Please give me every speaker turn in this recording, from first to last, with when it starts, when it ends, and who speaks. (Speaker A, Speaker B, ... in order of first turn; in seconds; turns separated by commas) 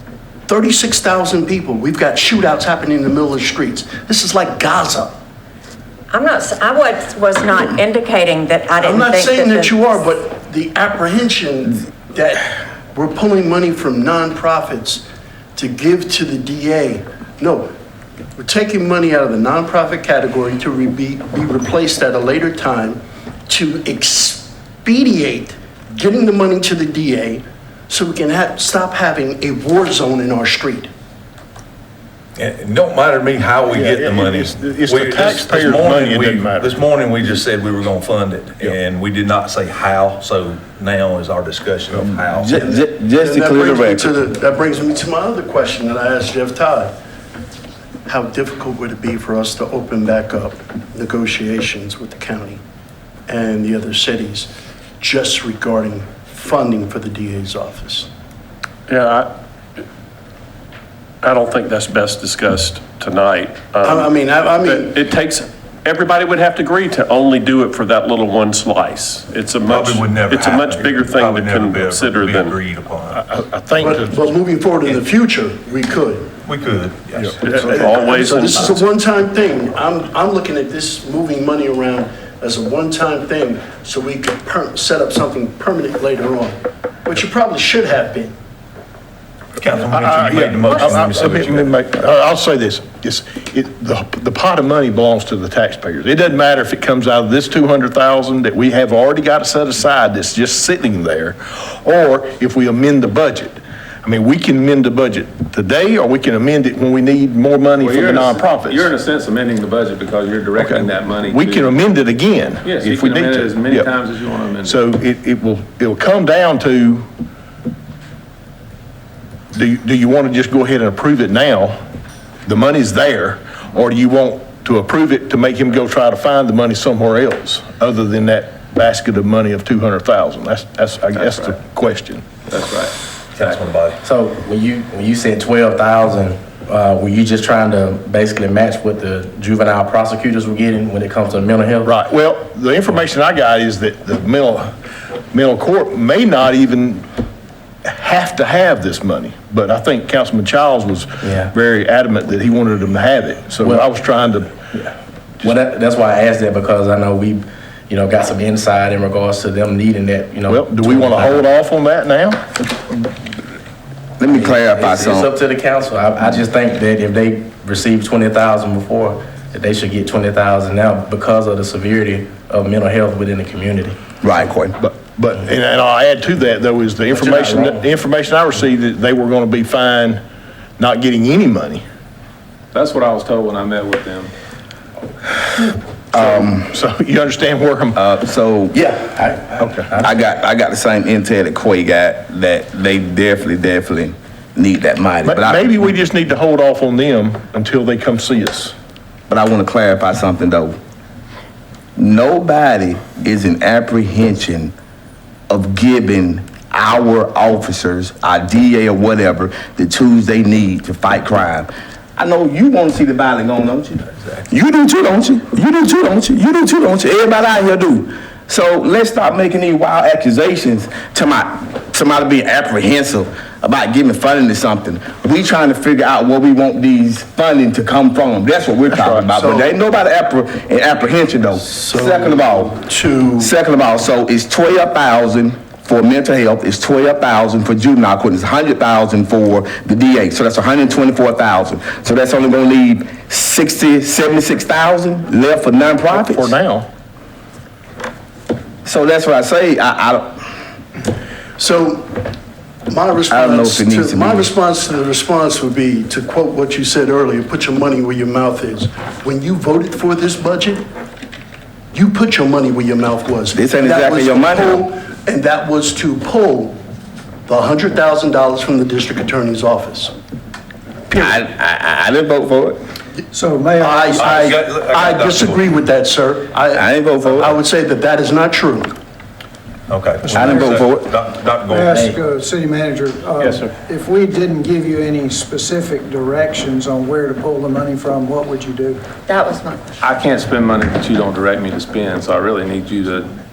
Speaker A: 0.5-5.2, Speaker B: 6.1-10.0, Speaker A: 8.8-17.7, Speaker A: 18.4-30.9, Speaker C: 32.4-42.8, Speaker D: 33.7-36.8, Speaker E: 42.3-44.1, Speaker A: 42.6-47.0, Speaker A: 48.1-52.6, Speaker A: 53.3-58.1, Speaker F: 58.9-59.3, Speaker F: 61.2-72.6, Speaker A: 63.8-64.9, Speaker C: 69.7-73.2, Speaker D: 73.1-74.2, Speaker A: 73.8-76.3, Speaker C: 76.5-77.4, Speaker D: 77.2-78.0, Speaker F: 77.3-78.9, Speaker A: 77.7-88.4, Speaker C: 89.6-91.8, Speaker D: 89.8-108.9, Speaker G: 107.8-111.8, Speaker D: 110.6-113.9, Speaker G: 112.6-114.8, Speaker D: 114.6-117.1, Speaker D: 119.5-121.8, Speaker D: 122.5-132.3, Speaker G: 131.1-131.6, Speaker G: 132.5-132.9, Speaker C: 133.4-134.0, Speaker H: 134.0-141.9, Speaker D: 141.8-144.7, Speaker D: 145.3-147.1, Speaker D: 147.8-154.5, Speaker H: 151.2-151.5, Speaker H: 153.6-153.9, Speaker H: 155.4-161.5, Speaker D: 160.5-162.4, Speaker E: 164.2-165.3, Speaker H: 164.3-174.0, Speaker E: 174.2-174.8, Speaker D: 174.8-180.2, Speaker H: 177.1-177.9, Speaker D: 180.8-181.8, Speaker G: 182.7-184.3, Speaker E: 186.1-186.7, Speaker D: 186.2-188.0, Speaker E: 188.0-189.0, Speaker H: 189.0-190.1, Speaker D: 189.6-189.9, Speaker E: 190.0-195.8, Speaker D: 195.3-198.7, Speaker E: 199.3-200.8, Speaker E: 202.0-204.7, Speaker E: 205.5-232.8, Speaker D: 228.9-229.3, Speaker A: 229.3-229.8, Speaker A: 231.7-233.5, Speaker E: 233.4-246.5, Speaker D: 246.1-246.9, Speaker E: 248.8-250.4, Speaker A: 251.6-252.3, Speaker A: 252.9-260.9, Speaker E: 253.3-254.5, Speaker A: 261.9-266.8, Speaker E: 263.6-264.8, Speaker A: 267.5-270.1, Speaker E: 271.1-272.8, Speaker I: 273.3-274.4, Speaker A: 273.8-279.0, Speaker C: 274.1-275.7, Speaker E: 276.7-277.5, Speaker C: 279.9-282.1, Speaker I: 280.2-280.7, Speaker E: 280.3-281.1, Speaker I: 281.7-289.0, Speaker B: 289.3-289.8, Speaker G: 290.0-293.3